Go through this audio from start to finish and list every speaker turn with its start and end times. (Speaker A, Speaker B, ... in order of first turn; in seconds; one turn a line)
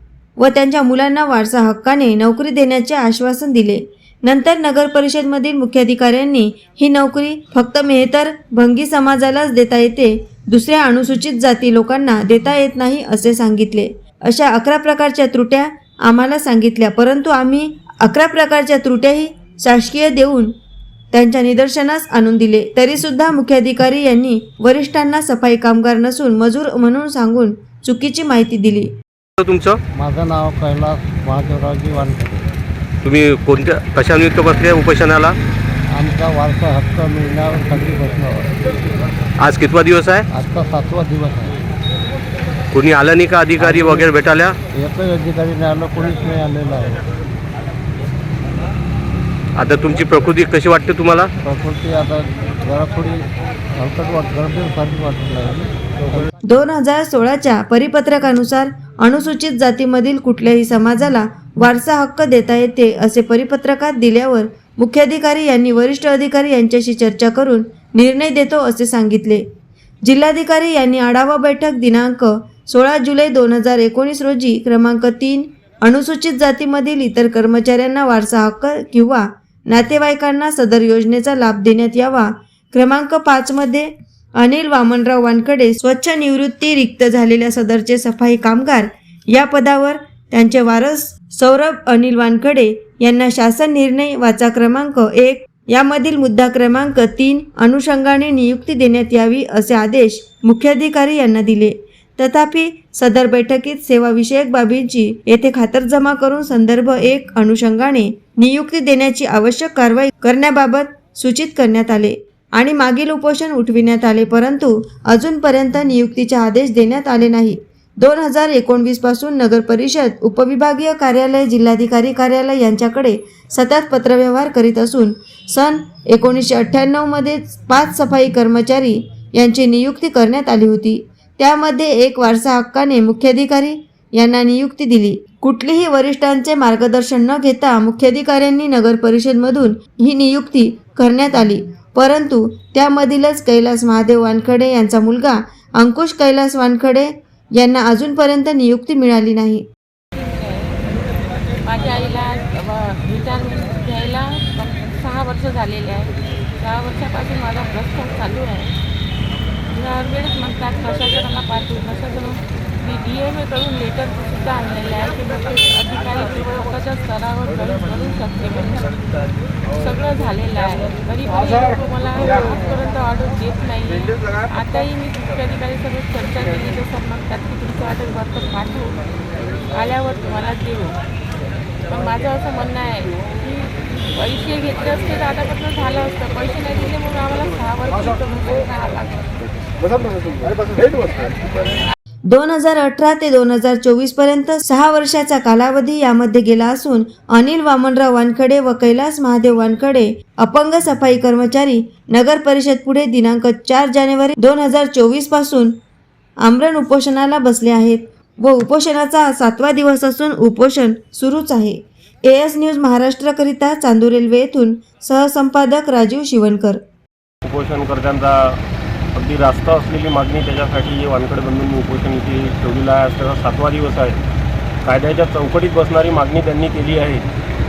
Speaker A: 0.4-20.5
Speaker A: 21.1-28.9
Speaker B: 29.4-29.8
Speaker C: 29.9-32.5
Speaker B: 33.0-35.4
Speaker C: 35.9-38.6
Speaker B: 39.4-40.2
Speaker C: 40.3-41.6
Speaker B: 42.7-44.6
Speaker C: 43.6-44.1
Speaker C: 44.7-47.0
Speaker B: 49.6-51.3
Speaker C: 51.4-56.3
Speaker A: 56.5-69.4
Speaker A: 70.0-149.7
Speaker D: 150.2-150.9
Speaker D: 151.7-158.7
Speaker D: 159.7-169.1
Speaker D: 169.7-179.0
Speaker D: 179.7-181.0
Speaker D: 181.9-191.3
Speaker A: 192.3-205.8
Speaker A: 206.4-216.8
Speaker E: 217.4-218.6
Speaker E: 219.2-224.2
Speaker E: 224.8-227.2